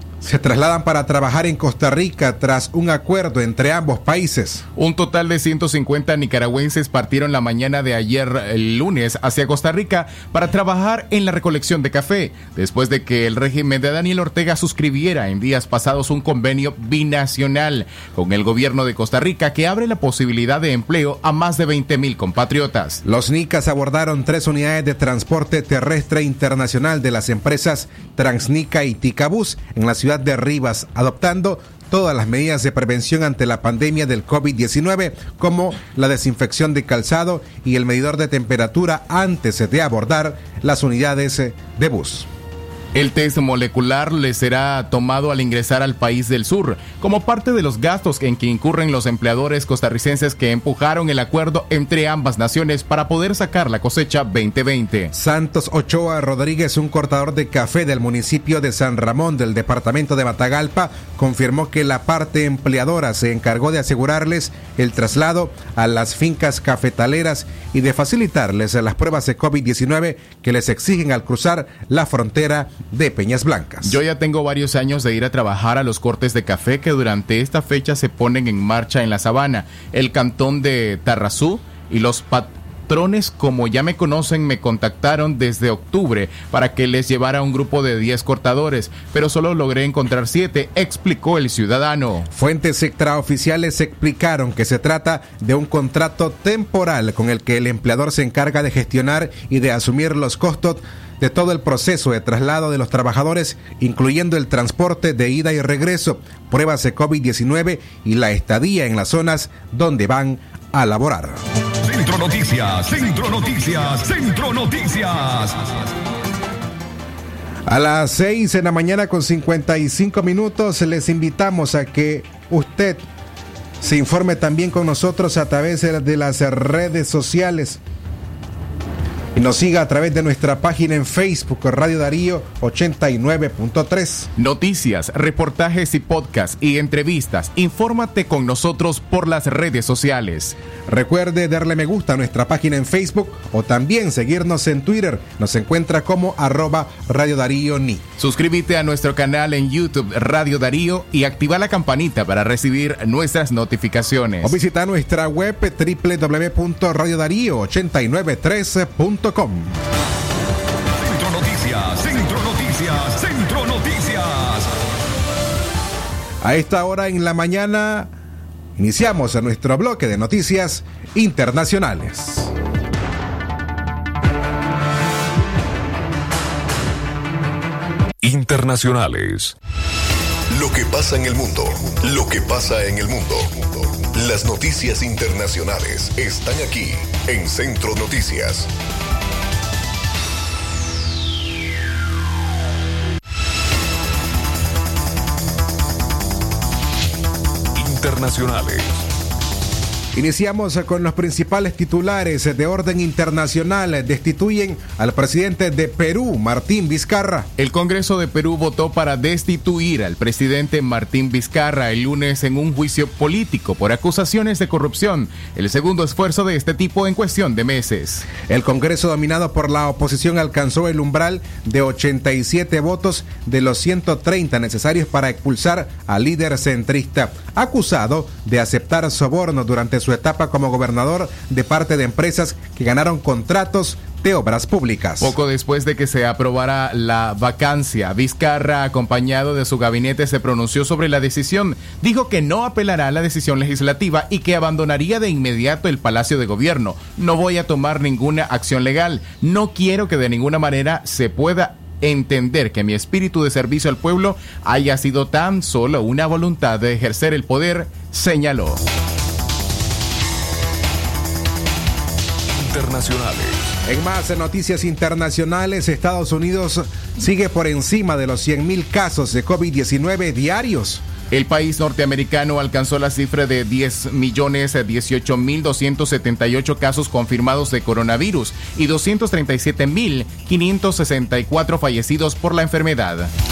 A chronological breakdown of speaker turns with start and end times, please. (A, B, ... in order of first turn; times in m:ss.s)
0:00.2-0:04.6 A
0:04.8-0:23.0 B
0:23.0-0:42.3 A
0:42.9-0:55.1 B
0:55.1-1:14.0 A
1:13.8-1:32.3 B
1:32.3-1:51.4 A
1:51.8-1:55.7 C
1:57.6-2:03.0 A
2:03.8-2:07.8 A
2:09.3-2:14.3 A
2:14.4-2:20.6 B
2:20.9-2:28.0 A
2:28.2-2:34.5 B
2:34.4-2:39.8 A
2:41.0-2:44.7 C
2:46.4-2:48.1 A
2:48.8-2:52.5 A
2:58.2-2:59.5 D
3:00.5-3:08.7 E
3:17.7-3:19.0 D
3:20.1-3:27.5 A
3:27.6-3:38.2 B
3:38.4-3:55.3 A
3:55.2-4:18.8 B
4:22.5-4:23.6 D
4:23.8-4:31.0 A
4:31.3-4:43.3 B